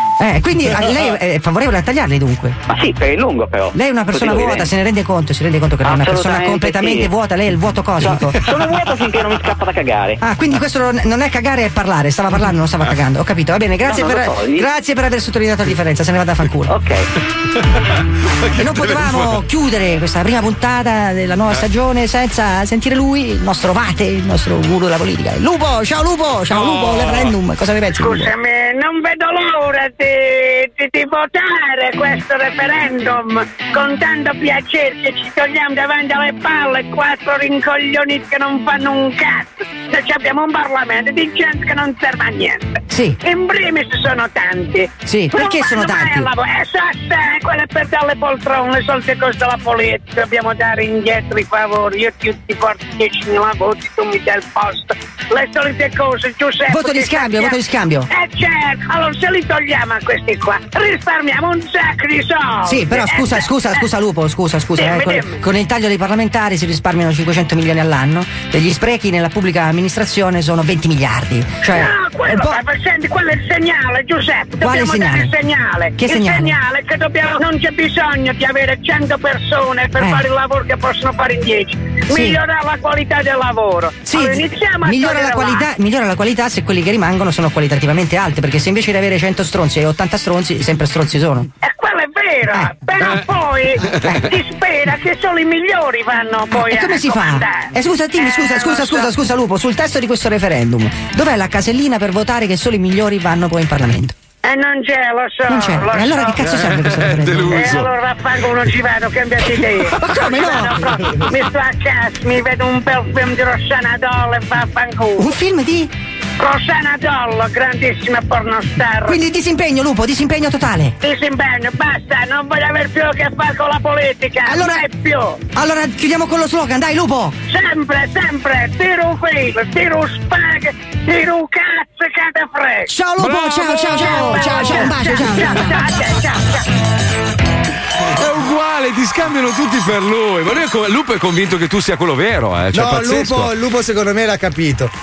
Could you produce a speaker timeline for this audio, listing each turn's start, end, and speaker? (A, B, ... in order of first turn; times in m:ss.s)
0:00.2-0:02.6 A
0:02.7-0:04.7 B
0:03.7-0:08.4 A
0:05.8-0:07.1 B
0:08.0-0:10.2 B
0:10.2-0:16.7 A
0:13.8-0:14.7 B
0:16.7-0:17.1 B
0:18.5-0:19.2 C
0:18.6-0:28.3 A
0:26.5-0:27.3 C
0:27.9-1:03.8 D
0:42.9-0:43.2 A
0:45.0-0:46.3 A
0:56.7-0:58.1 A
1:02.6-1:12.6 A
1:04.8-1:05.4 D
1:11.6-1:25.7 D
1:14.6-1:15.3 A
1:16.0-1:16.6 A
1:22.1-1:22.4 A
1:24.0-1:31.5 A
1:31.6-1:39.1 D
1:33.9-1:34.2 A
1:36.5-1:44.1 A
1:44.4-1:46.5 D
1:45.5-1:47.7 A
1:46.4-1:47.9 C
1:47.5-1:55.3 D
1:50.0-1:50.8 A
1:55.2-1:55.9 A
1:56.4-1:59.2 D
1:59.0-2:00.9 A
2:01.0-2:05.4 D
2:04.4-2:04.8 A
2:05.5-2:07.4 A
2:07.5-2:13.0 D
2:12.9-2:15.8 A
2:13.2-2:13.9 C
2:13.6-2:16.6 D
2:18.1-2:23.5 C
2:22.7-2:24.9 E